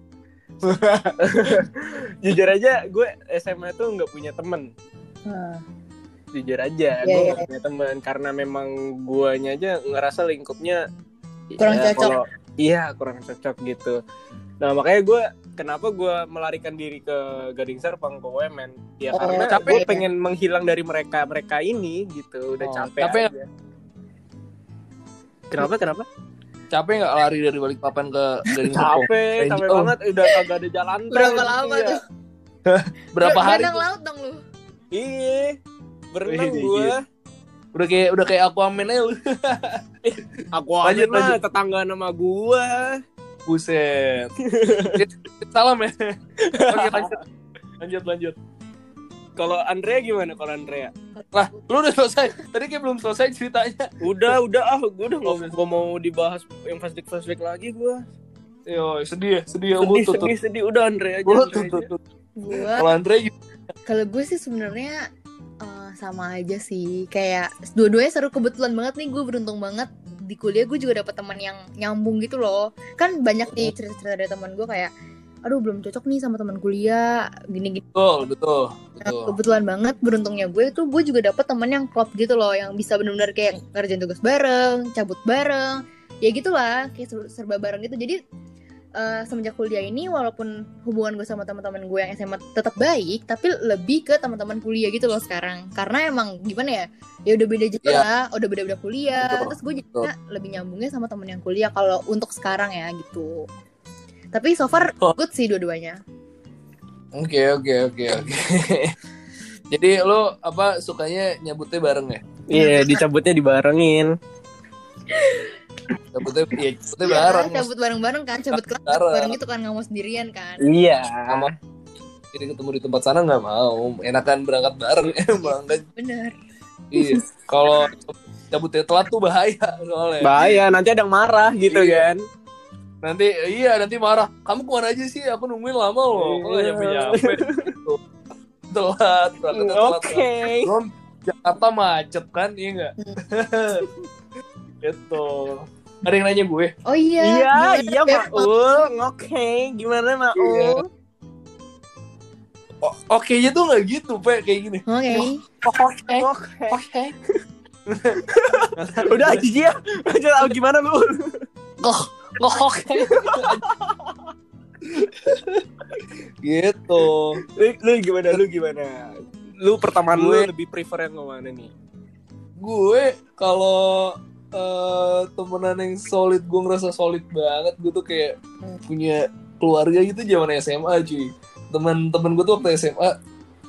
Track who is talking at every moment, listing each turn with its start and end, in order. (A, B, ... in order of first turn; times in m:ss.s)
0:00.6-0:01.6 A
0:01.2-0:04.7 B
0:05.2-0:05.6 C
0:06.3-0:10.8 B
0:07.0-0:07.4 C
0:11.5-0:14.0 B
0:11.6-0:12.2 C
0:14.6-0:23.4 B
0:19.1-0:20.0 C
0:19.2-0:20.0 A
0:22.6-0:23.3 A
0:25.5-0:26.0 B
0:26.7-0:29.9 A
0:28.7-0:32.0 B
0:31.1-0:32.0 C
0:32.6-0:33.8 A
0:33.2-0:34.4 C
0:34.9-0:35.6 B
0:36.1-0:37.0 B
0:36.2-0:36.9 A
0:37.7-0:39.8 A
0:40.0-0:43.0 B
0:40.8-0:41.4 A
0:43.4-0:44.3 A
0:44.4-0:45.0 B
0:44.9-0:47.2 A
0:46.4-0:47.1 B
0:47.8-0:48.4 A
0:49.4-0:50.9 B
0:51.3-0:54.4 A
0:54.0-0:58.0 B
0:55.2-0:55.5 A
0:58.6-1:00.3 A
0:59.8-1:01.9 B
1:01.2-1:02.0 A
1:02.4-1:02.9 C
1:02.5-1:03.3 A
1:03.8-1:05.0 C
1:05.6-1:14.9 C
1:15.4-1:17.8 C
1:17.9-1:19.4 A
1:19.0-1:28.2 C
1:29.0-1:43.4 C
1:39.2-1:40.1 A
1:44.3-1:46.0 C
1:47.1-1:48.9 A
1:49.7-1:52.2 A
1:52.5-1:54.1 B
1:52.5-1:53.0 C
1:55.1-1:55.5 C
1:56.1-1:57.7 A
1:57.0-2:00.6 C
1:58.5-1:59.4 A
2:00.6-2:01.5 B
2:02.3-2:05.8 A
2:06.0-2:06.3 C
2:06.9-2:10.5 A
2:10.2-2:12.2 B
2:11.6-2:12.1 A
2:13.0-2:18.0 A
2:16.1-2:17.7 B
2:18.7-2:23.9 A
2:19.5-2:20.7 B
2:24.8-2:26.7 A
2:26.8-2:28.5 C
2:27.2-2:30.8 B
2:30.4-2:30.8 A
2:32.8-2:37.1 A
2:34.9-2:35.4 C
2:36.0-2:36.8 B
2:37.9-2:38.2 A
2:38.2-2:41.3 B
2:38.7-2:39.4 A
2:41.8-2:43.6 A
2:43.0-2:44.1 B
2:44.8-2:45.6 A
2:46.4-2:47.4 A
2:47.4-2:51.7 B
2:50.1-2:50.5 A
2:52.6-3:03.2 A